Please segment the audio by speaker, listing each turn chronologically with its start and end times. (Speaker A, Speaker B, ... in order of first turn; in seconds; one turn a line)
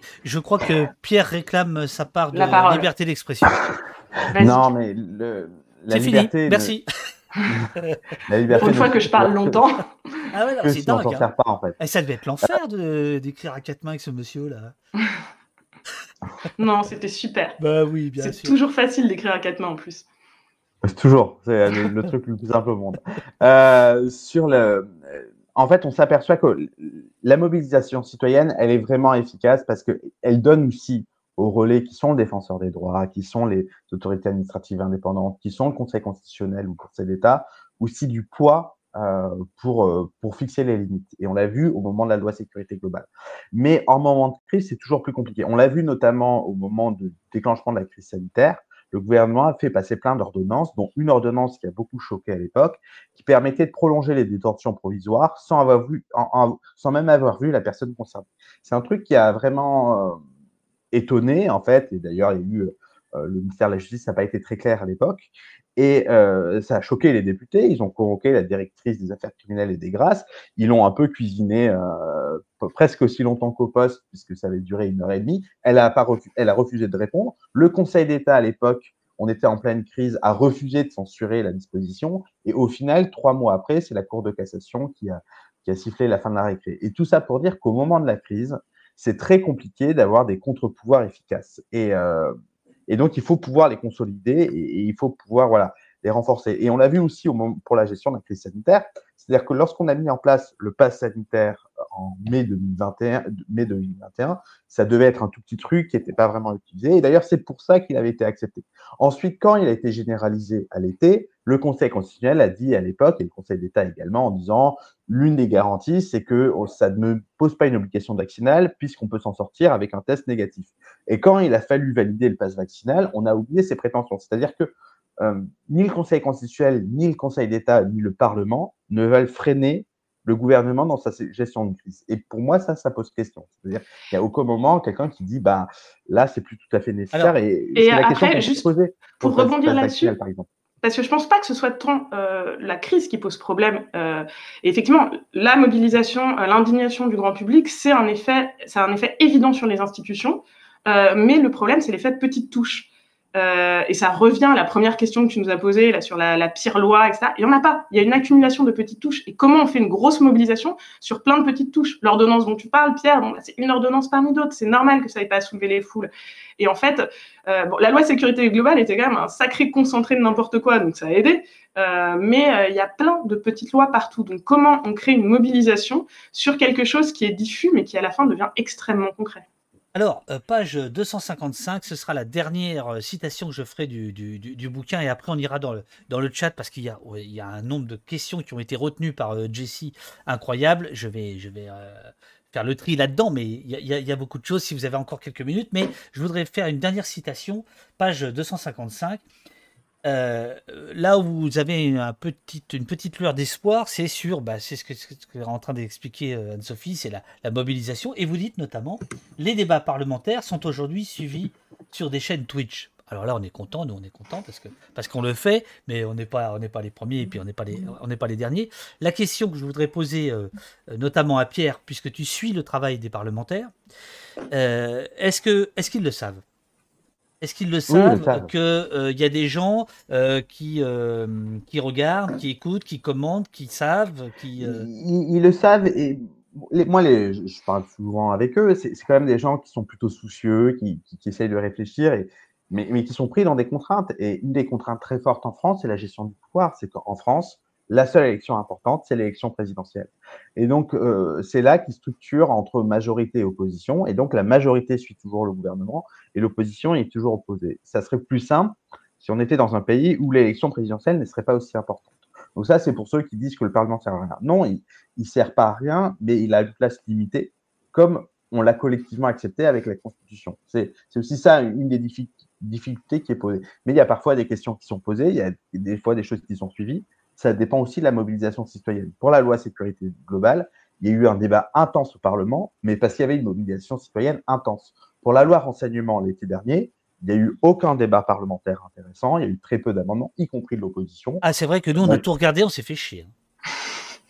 Speaker A: 0.2-3.6
Speaker B: 2.3-2.9
Speaker B: 4.3-4.7
Speaker C: 4.3-6.7
Speaker A: 5.9-6.8
Speaker A: 7.8-8.1
Speaker C: 8.3-9.6
Speaker B: 8.5-10.3
Speaker A: 10.3-11.2
Speaker C: 10.6-11.8
Speaker A: 11.8-14.7
Speaker B: 16.6-17.6
Speaker A: 17.6-18.5
Speaker B: 18.2-20.1
Speaker C: 20.8-60.2
Speaker C: 60.9-92.3
Speaker C: 92.9-140.5
Speaker B: 137.8-140.1
Speaker B: 140.8-179.4
Speaker A: 179.9-199.2
Speaker A: 200.0-223.7
Speaker A: 224.5-226.4
Speaker A: 227.4-234.9
Speaker C: 227.9-228.5
Speaker C: 234.6-291.4
Speaker A: 291.4-293.3